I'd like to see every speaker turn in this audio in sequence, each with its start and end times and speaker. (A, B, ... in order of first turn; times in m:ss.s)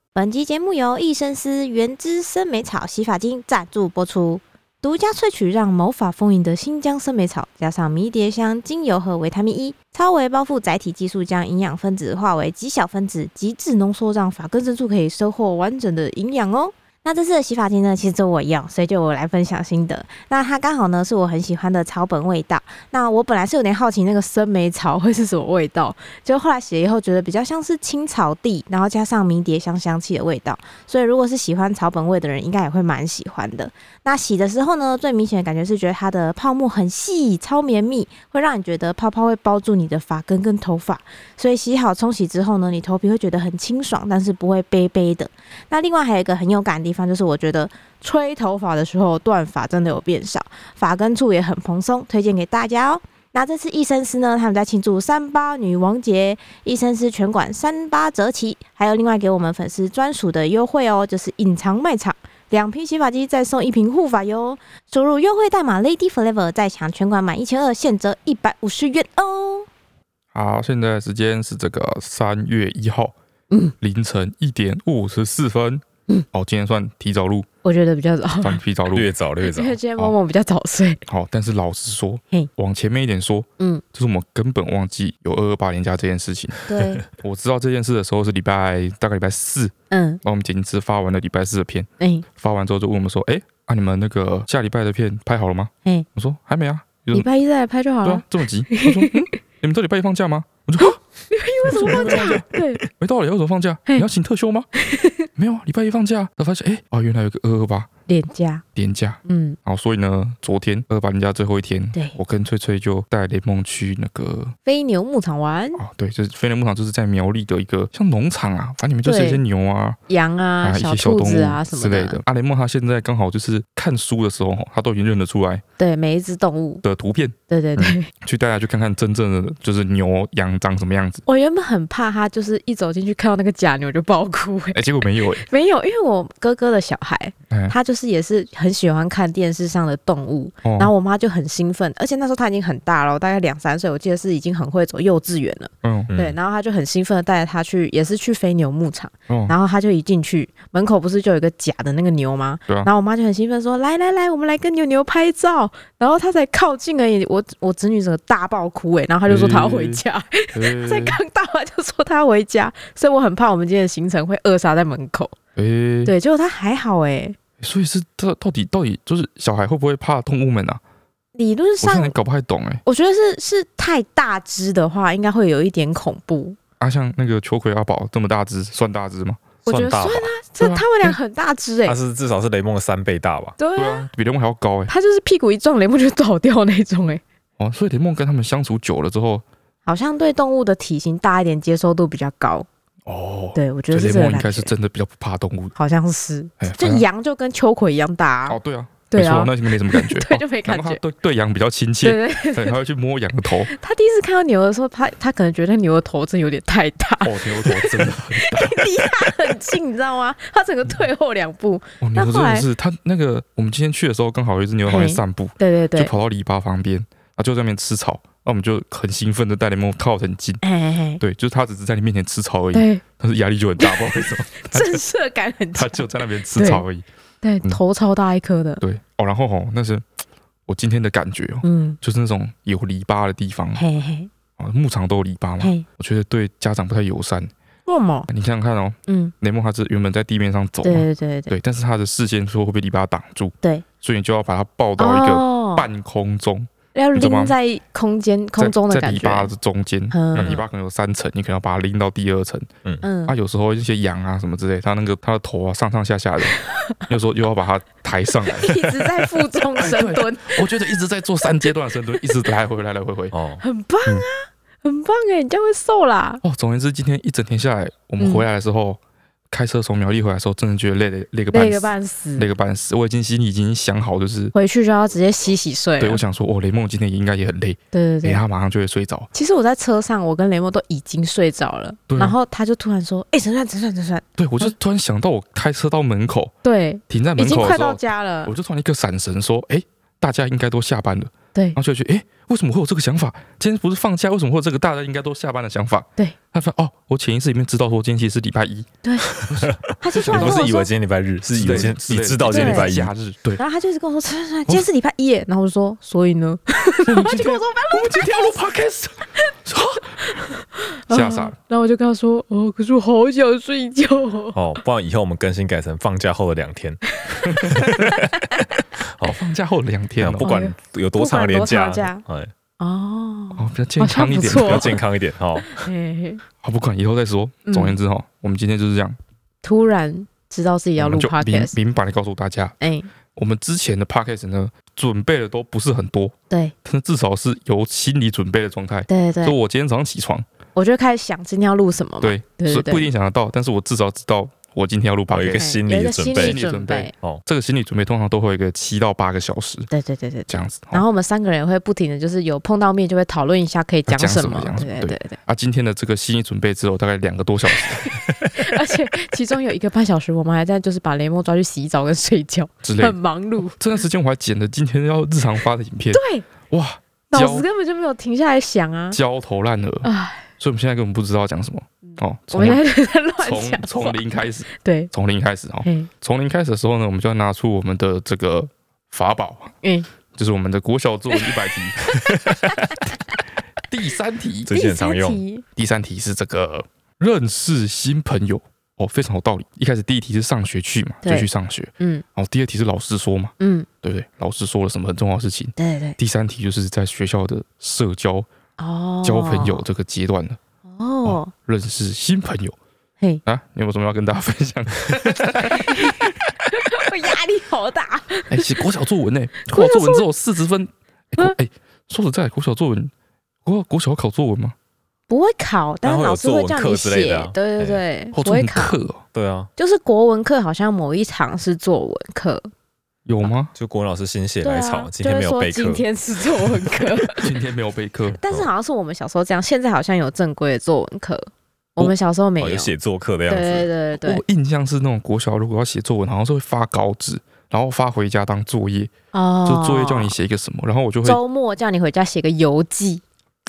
0:00.2-1:09.7 A
1:10.3-1:13.2 B
1:13.8-1:17.5 B
1:17.6-1:18.6 A
1:18.4-1:19.1 B
1:18.9-1:19.8 C
1:19.4-1:21.0 A
1:21.1-1:37.3 B
1:26.7-1:27.0 A
1:29.9-1:30.2 A
1:32.0-1:32.2 A
1:37.1-1:39.3 A
1:38.0-1:41.0 B
1:40.8-1:42.8 A
1:41.7-1:44.7 B
1:44.8-1:45.3 A
1:45.4-1:47.9 B
1:48.1-1:48.6 A
1:48.8-1:54.6 B
1:49.3-1:49.6 A
1:54.6-1:55.8 A
1:55.8-2:00.0 B
1:59.0-1:59.4 A
2:00.1-2:02.2 A
2:00.6-2:05.6 B
2:05.8-2:06.8 A
2:06.8-2:11.2 B
2:07.5-2:08.1 A
2:11.3-2:45.4 A
2:14.7-2:15.4 B
2:17.5-2:17.8 B
2:20.6-2:20.9 B
2:25.8-2:26.1 B
2:26.1-2:26.4 C
2:29.3-2:29.6 B
2:39.3-2:40.0 B
2:40.6-2:41.2 B
2:45.6-2:46.1 B
2:46.0-2:47.4 A
2:47.6-2:50.8 B
2:51.4-2:52.2 A
2:51.8-2:52.8 B
2:52.8-2:56.6 A
2:56.8-2:59.5 B
2:59.7-3:02.0 A
2:59.7-3:00.3 C
3:00.6-3:01.1 B
3:01.9-3:03.6 C
3:03.6-3:04.1 A
3:03.8-3:04.9 B
3:04.9-3:07.2 A
3:07.6-3:09.4 B
3:09.9-3:12.7 A
3:13.1-3:15.7 B
3:13.6-3:14.7 A
3:15.8-3:18.6 A
3:16.6-3:17.1 B
3:18.5-3:23.7 B
3:19.1-3:21.0 A
3:22.0-3:22.8 A
3:23.7-3:32.7 A
3:27.2-3:29.3 B
3:32.0-3:40.6 B
3:34.9-3:36.1 A
3:40.6-3:41.2 A
3:41.2-3:45.0 B
3:42.7-3:43.0 A
3:43.8-3:44.0 A
3:44.6-3:46.0 A
3:45.8-3:47.0 B
3:46.6-3:46.8 A
3:47.4-3:48.8 A
3:48.8-3:50.0 B
3:50.7-3:53.8 B
3:51.6-3:52.0 A
3:53.8-3:54.3 A
3:54.6-3:57.5 B
3:55.6-3:55.9 A
3:57.9-3:58.3 A
3:58.3-4:07.6 B
3:59.1-3:59.3 A
4:00.8-4:01.5 A
4:05.0-4:05.9 A
4:06.9-4:09.5 A
4:08.6-4:12.7 B
4:10.1-4:10.6 A
4:13.0-4:13.3 A
4:13.3-4:18.8 B
4:18.6-4:20.6 A
4:19.8-4:23.3 B
4:23.3-4:24.3 C
4:23.6-4:26.4 A
4:26.4-4:29.0 B
4:28.2-4:28.5 A
4:29.5-4:34.5 B
4:31.5-4:32.5 A
4:34.5-4:36.2 A
4:36.0-4:39.3 B
4:37.9-4:38.4 A
4:39.3-4:44.7 A
4:42.1-4:42.4 B
4:44.4-4:46.5 B
4:46.6-4:48.5 A
4:47.1-5:00.7 B
4:59.0-4:59.3 A
4:59.3-5:03.1 C
5:00.0-5:00.9 A
5:01.5-5:03.6 B
5:02.5-5:03.0 A
5:03.6-5:08.6 A
5:07.0-5:10.2 B
5:10.2-5:14.6 A
5:11.1-5:11.6 B
5:14.6-5:18.3 C
5:17.3-5:18.6 A
5:17.5-5:18.0 B
5:19.0-5:19.4 C
5:19.2-5:20.6 B
5:20.2-5:22.5 C
5:20.4-5:22.2 A
5:22.8-5:25.0 A
5:23.6-5:25.0 B
5:24.4-5:25.9 C
5:25.6-5:26.4 A
5:26.6-5:29.2 B
5:27.7-5:28.0 A
5:29.6-5:31.8 A
5:31.0-5:32.8 B
5:32.8-5:33.1 A
5:33.4-5:36.3 B
5:36.8-5:40.5 B
5:39.1-5:39.6 A
5:40.8-5:43.1 A
5:42.2-5:45.8 B
5:45.3-5:46.6 C
5:45.5-5:47.1 A
5:46.4-5:49.9 B
5:49.9-5:55.4 A
5:50.5-5:51.0 B
5:54.1-5:58.1 B
5:57.8-6:03.8 A
6:02.8-6:07.7 B
6:06.1-6:06.4 A
6:07.3-6:09.2 A
6:09.1-6:12.8 B
6:10.0-6:10.5 A
6:12.5-6:14.2 A
6:13.4-6:19.7 B
6:14.7-6:15.1 A
6:15.8-6:16.1 A
6:19.8-6:20.1 A
6:20.3-6:22.0 B
6:21.3-6:22.1 A
6:22.2-6:22.7 C
6:23.9-6:24.7 B
6:24.7-6:25.4 C
6:24.7-6:25.6 A
6:25.8-6:38.5 B
6:33.6-6:33.9 A
6:35.8-6:36.2 A
6:38.8-6:39.8 A
6:39.2-6:40.6 B
6:40.9-6:41.5 A
6:41.2-6:42.8 B
6:43.5-6:46.4 B
6:45.7-6:48.8 A
6:48.5-6:53.1 B
6:49.7-6:50.3 A
6:53.6-6:54.8 B
6:55.3-6:59.0 A
6:56.0-6:58.0 C
6:58.3-6:59.2 B
6:59.3-6:59.7 C
6:59.8-7:02.7 A
7:03.3-7:03.7 B
7:03.7-7:06.0 C
7:04.6-7:07.5 A
7:07.4-7:08.4 B
7:08.4-7:12.9 A
7:12.6-7:13.9 C
7:13.5-7:14.4 A
7:14.2-7:19.1 B
7:19.3-7:20.3 A
7:19.6-7:21.4 B
7:21.2-7:23.2 A